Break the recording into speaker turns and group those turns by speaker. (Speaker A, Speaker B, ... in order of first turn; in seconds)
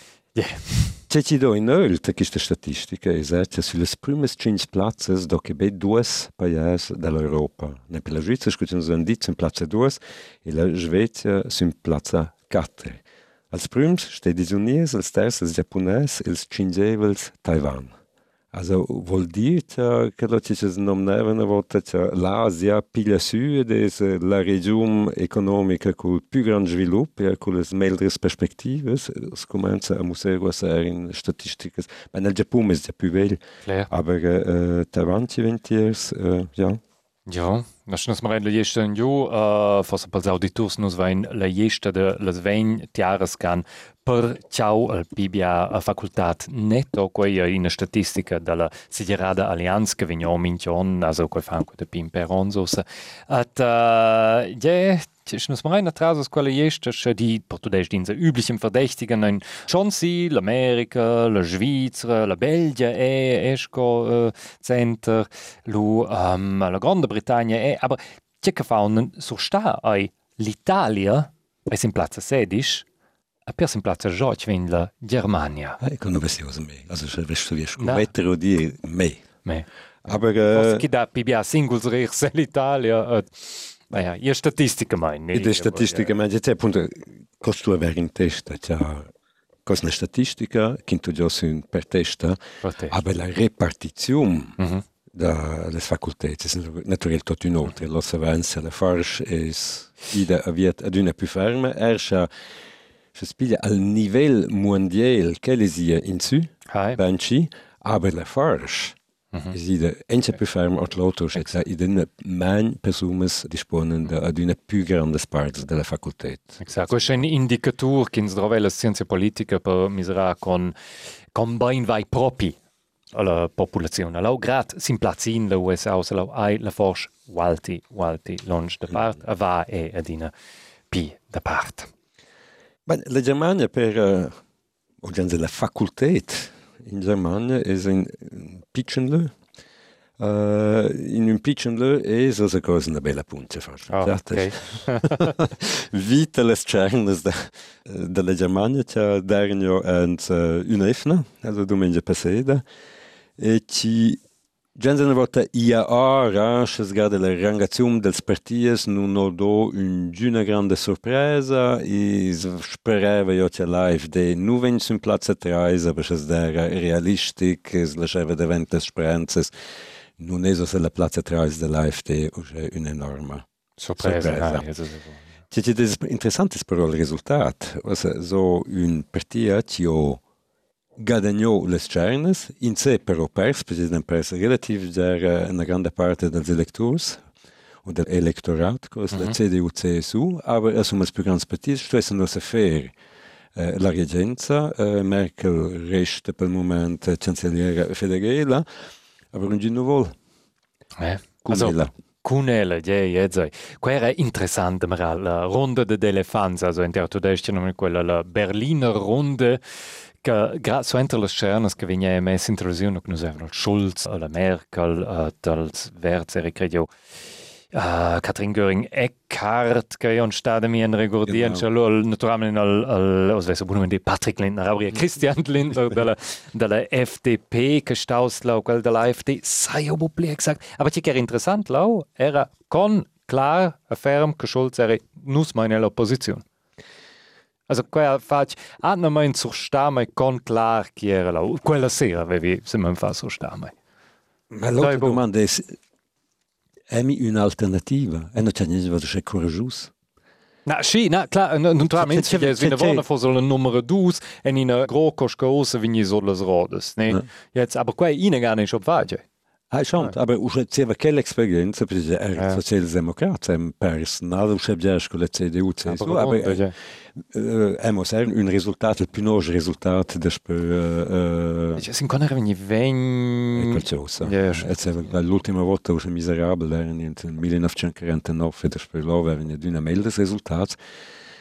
Speaker A: 0.3-1.0, 33.6-33.9, 37.3-72.8, 73.5-75.8, 77.8-78.1, 79.4-86.2, 92.6-93.0, 94.6-94.8, 106.7-107.0, 116.6-120.8, 121.3-122.6, 123.1-130.3, 130.9-131.9, 143.9-145.3, 173.8-175.2, 201.0-209.6, 210.2-216.9, 217.7-236.4, 237.7-243.7, 244.8-245.2, 250.7-259.2, 262.4-262.6, 265.9-266.8, 271.8-274.7
Speaker B: 1.1-17.9, 18.5-36.8, 75.8-79.2, 80.0-80.8, 85.3-89.1, 89.7-94.6, 95.1-102.3, 103.2-109.0, 109.5-117.1, 132.9-134.3, 135.0-139.3, 140.2-152.6, 153.4-154.2, 154.8-169.5, 170.2-173.4, 174.0-174.7, 175.5-180.2, 181.0-187.2, 187.8-192.9, 193.6-198.7, 199.3-200.1, 201.4-201.9, 221.2-221.7, 244.5-245.8, 246.9-249.9, 251.9-253.1, 259.7-271.9, 273.6-280.8